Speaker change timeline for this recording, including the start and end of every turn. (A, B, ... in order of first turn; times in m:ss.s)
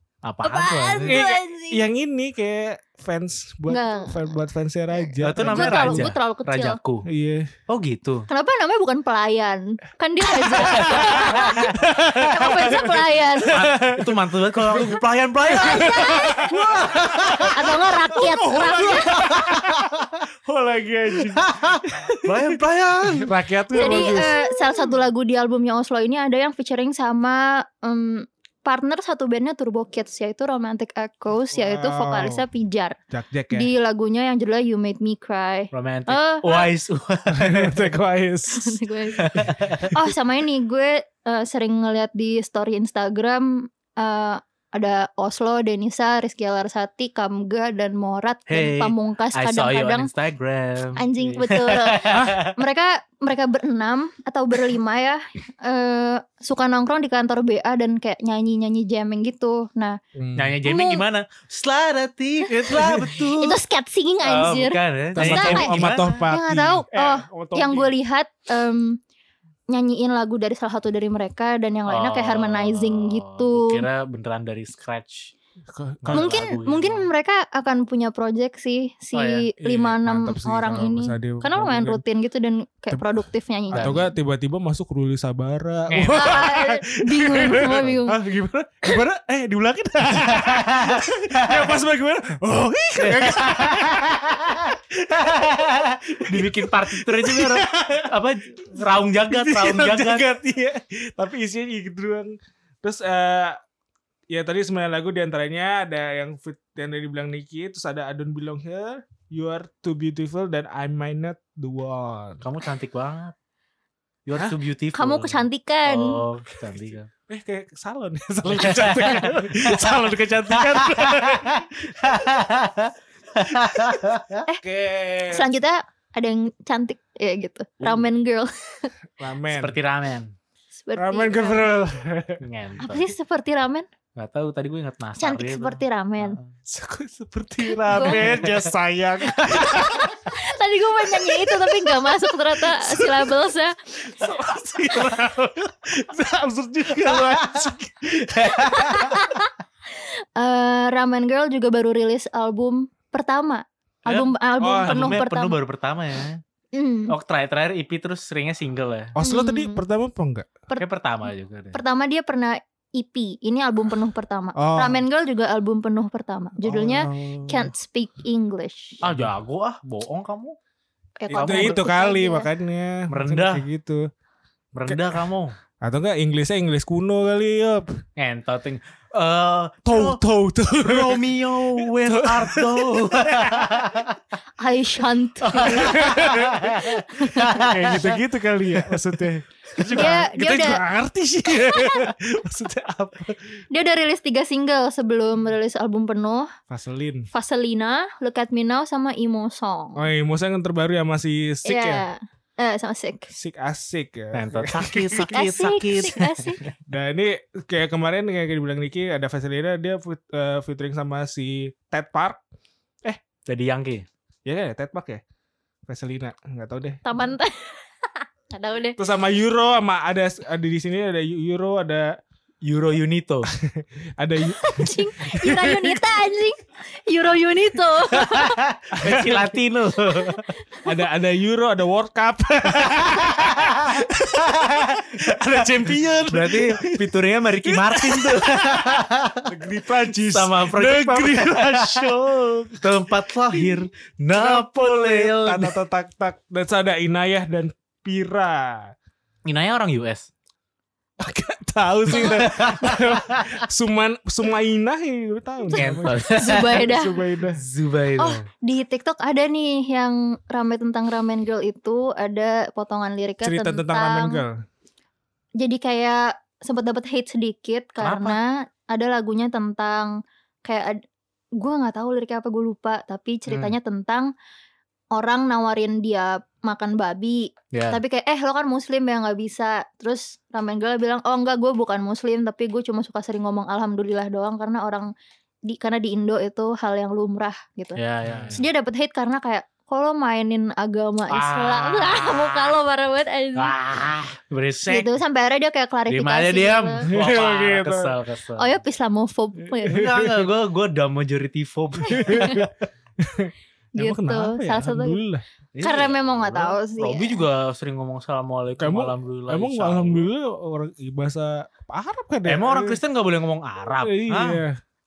0:00.2-0:01.2 A
0:00.4-0:01.8 B
0:01.0-0:06.1 C
0:03.7-0:04.4 B
0:04.9-0:06.8 B
0:05.2-0:07.1 A
0:07.0-0:07.5 C
0:07.7-0:08.3 A
0:08.3-0:13.6 B
0:10.4-0:22.6 C
0:10.6-0:11.7 A
0:13.5-0:17.5 A
0:15.5-0:19.2 B
0:19.0-0:20.0 A
0:21.4-0:24.2 A
0:23.1-0:24.8 C
0:23.7-0:33.0 B
0:31.5-0:32.4 C
0:33.1-0:33.7 C
0:33.5-0:36.7 B
0:35.7-0:37.9 A
0:37.3-0:40.0 C
0:38.5-0:39.4 B
0:39.2-0:39.9 A
0:39.9-0:50.1 B
0:48.5-0:52.6 A
0:51.0-1:00.0 B
0:52.1-0:52.4 C
1:00.1-1:00.6 C
1:00.4-1:03.6 A
1:00.6-1:01.0 B
1:02.5-1:09.0 B
1:02.7-1:03.1 C
1:04.2-1:06.2 A
1:05.1-1:07.9 C
1:09.7-1:13.9 B
1:11.9-1:15.3 A
1:15.7-1:16.3 C
1:16.0-1:17.1 A
1:16.1-1:24.1 B
1:19.1-1:19.5 A
1:19.6-1:22.0 C
1:23.7-1:38.1 C
1:23.7-1:24.0 A
1:25.9-1:26.5 A
1:26.1-1:28.2 B
1:30.3-1:31.7 A
1:33.0-1:34.1 A
1:35.2-1:40.2 A
1:38.7-1:43.6 C
1:44.3-1:52.4 C
1:52.4-1:53.3 A
1:54.2-1:57.1 A
1:54.9-1:56.2 B
1:56.7-2:02.3 C
1:58.5-2:04.4 A
2:03.6-2:04.0 C
2:04.6-2:05.5 C
2:05.3-2:08.9 B
2:09.2-2:09.8 C
2:09.5-2:10.3 A
2:10.8-2:11.8 B
2:11.0-2:12.4 C
2:12.4-2:13.1 A
2:12.8-2:13.9 B
2:14.2-2:16.5 A
2:15.2-2:16.4 B
2:16.6-2:20.3 C
2:17.8-2:18.4 B
2:18.0-2:18.7 A
2:19.6-2:23.7 B
2:21.1-2:29.2 C
2:27.1-2:27.6 A
2:28.3-2:29.2 A
2:28.7-2:35.6 B
2:34.0-2:34.3 A
2:34.6-2:35.2 C
2:34.8-2:36.4 A
2:36.7-2:37.1 B
2:37.1-2:39.1 A
2:39.1-2:40.5 C
2:39.2-2:39.8 B
2:40.8-2:41.8 A
2:41.7-2:49.0 B
2:44.6-2:45.0 C
2:46.6-2:47.7 C
2:49.0-2:50.6 A
2:51.2-2:52.5 B
2:51.3-2:54.1 C
2:51.3-2:51.8 A
2:53.1-2:53.6 A
2:54.7-2:55.5 A
2:55.8-2:58.0 C
2:58.2-3:00.2 A
2:59.8-3:04.0 C
3:00.8-3:04.2 A
3:04.6-3:06.0 B
3:05.4-3:08.2 A
3:05.5-3:13.5 C
3:09.7-3:10.1 A
3:09.9-3:10.8 B
3:11.5-3:12.1 B
3:13.7-3:16.5 B
3:16.7-3:17.3 C
3:17.3-3:20.0 B
3:20.0-3:22.0 C
3:21.6-3:23.3 B
3:23.3-3:25.4 C
3:24.3-3:26.7 A
3:25.3-3:26.6 B
3:26.9-3:32.4 C
3:33.5-3:34.0 A
3:34.4-3:35.2 C
3:35.8-3:37.0 C
3:37.0-3:39.0 B
3:39.0-3:42.2 C
3:42.6-3:43.5 A
3:43.5-3:46.0 C
3:44.5-3:48.6 B
3:48.2-3:50.5 A
3:48.9-3:49.5 C
3:50.8-4:08.9 C
3:53.6-3:54.0 A
3:54.6-3:59.5 A
4:00.1-4:02.1 A
4:02.8-4:05.8 A
4:09.4-4:10.3 A
4:11.2-4:17.6 C
4:12.1-4:13.6 A
4:15.7-4:17.2 B
4:15.7-4:16.8 A
4:17.5-4:18.4 A
4:18.2-4:24.4 B
4:23.4-4:24.6 C
4:25.6-4:31.0 B
4:28.0-4:28.4 A
4:31.6-4:34.3 B
4:33.5-4:33.7 C
4:35.1-4:45.1 B
4:37.7-4:38.0 A
4:45.7-4:48.0 B
4:48.0-4:48.6 A
4:48.2-4:48.6 C
4:48.5-4:53.7 B
4:51.3-4:52.7 A
4:53.6-4:55.1 A
4:54.8-4:57.1 B
4:56.1-4:58.8 A
4:57.1-4:58.1 C
4:58.6-5:00.1 B
4:59.8-5:00.5 C
4:59.9-5:02.7 A
5:02.0-5:05.4 C
5:02.1-5:02.6 B
5:04.0-5:05.2 B
5:05.7-5:10.3 A
5:05.8-5:07.4 B
5:08.8-5:13.0 C
5:12.4-5:14.6 A
5:14.0-5:14.8 C